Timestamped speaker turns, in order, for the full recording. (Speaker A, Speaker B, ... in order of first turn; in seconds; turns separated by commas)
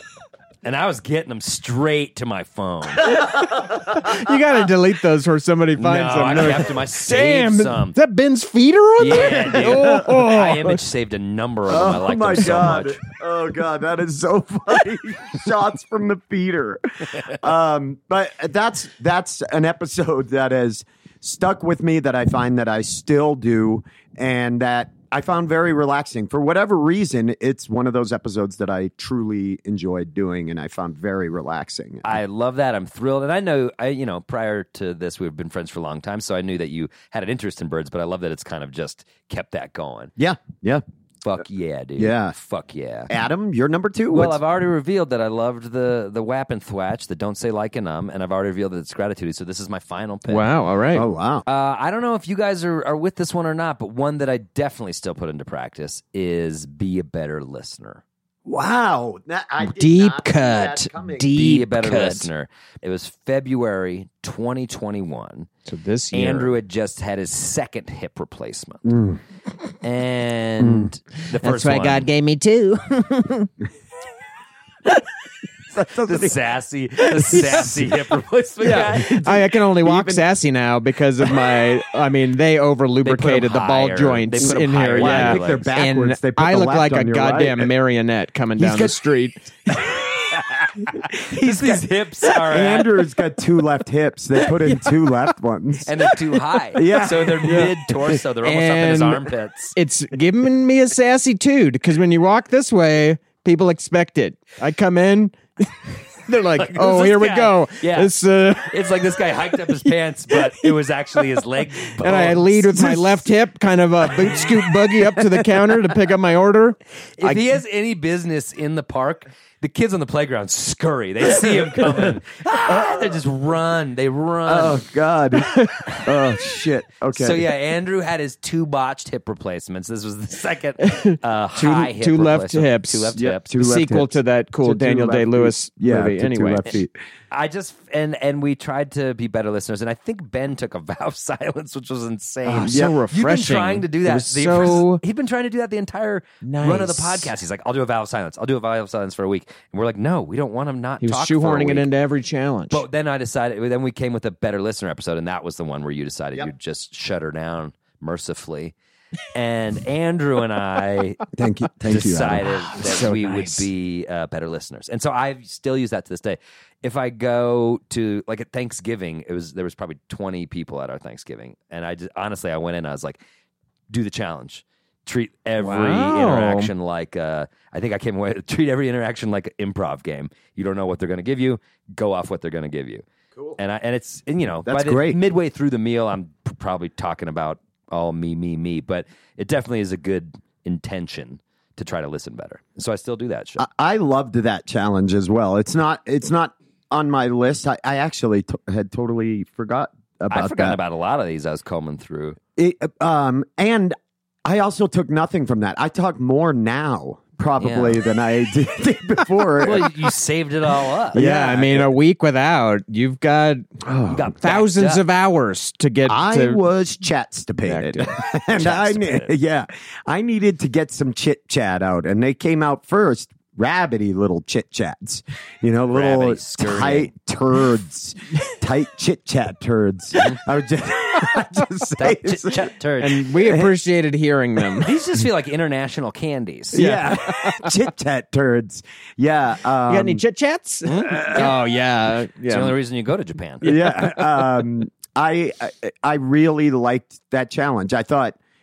Speaker A: 0.6-3.2, Speaker B: 3.2-4.2, Speaker C: 4.0-10.8, Speaker A: 5.8-8.0, Speaker A: 9.0-13.0, Speaker B: 9.6-10.2, Speaker B: 11.7-32.1, Speaker A: 32.0-40.1, Speaker B: 40.2-40.8, Speaker A: 41.2-43.1, Speaker B: 42.0-42.4, Speaker B: 43.1-44.4, Speaker A: 44.1-50.5, Speaker C: 50.3-51.1, Speaker B: 50.9-51.5, Speaker A: 51.5-58.0, Speaker B: 58.5-61.3, Speaker C: 59.6-62.3, Speaker A: 61.3-65.5, Speaker C: 65.7-66.5, Speaker A: 66.1-68.8, Speaker B: 68.8-69.2, Speaker A: 69.8-72.1, Speaker B: 70.6-70.9, Speaker C: 71.4-73.5, Speaker B: 75.7-76.4, Speaker A: 76.0-79.2, Speaker C: 77.1-77.9, Speaker B: 77.3-77.9, Speaker C: 78.6-90.0, Speaker B: 78.7-80.3, Speaker A: 83.0-85.8, Speaker B: 84.4-87.7, Speaker B: 88.6-89.0, Speaker A: 90.4-90.7, Speaker B: 90.9-91.8, Speaker A: 91.3-92.9, Speaker B: 92.4-95.9, Speaker C: 94.6-95.3, Speaker A: 95.9-99.8, Speaker B: 96.8-97.7, Speaker C: 97.4-108.8, Speaker A: 106.6-113.3, Speaker C: 112.0-117.4, Speaker A: 114.1-114.6, Speaker A: 117.2-124.8, Speaker B: 122.7-123.2, Speaker B: 124.5-127.5, Speaker C: 125.5-125.8, Speaker A: 127.1-133.5, Speaker C: 130.8-136.8, Speaker B: 133.2-136.9, Speaker A: 137.3-151.9, Speaker C: 142.4-145.0, Speaker B: 142.6-143.0, Speaker C: 146.4-147.3, Speaker C: 151.0-152.8, Speaker A: 152.7-158.7, Speaker A: 159.3-161.3, Speaker B: 161.3-162.5, Speaker A: 161.8-173.2, Speaker C: 162.4-163.7, Speaker A: 173.9-183.1, Speaker C: 175.6-176.7, Speaker A: 183.6-193.7, Speaker B: 184.7-185.2, Speaker B: 193.6-200.8, Speaker A: 200.3-202.4, Speaker B: 202.6-209.9, Speaker A: 207.6-208.0, Speaker A: 209.6-211.2, Speaker B: 211.1-211.9, Speaker C: 211.1-213.8, Speaker B: 213.9-214.3, Speaker A: 214.1-215.0, Speaker C: 214.4-216.6, Speaker B: 216.1-232.7, Speaker C: 217.7-218.1, Speaker A: 218.5-219.3, Speaker A: 225.9-227.1, Speaker A: 232.0-233.3, Speaker C: 233.0-234.9, Speaker B: 233.3-233.8, Speaker A: 234.8-236.8, Speaker B: 236.7-240.2, Speaker C: 236.7-237.8, Speaker C: 239.9-242.8, Speaker A: 240.9-241.7, Speaker B: 241.0-241.5, Speaker A: 242.5-243.7, Speaker B: 243.6-248.4, Speaker C: 243.7-244.1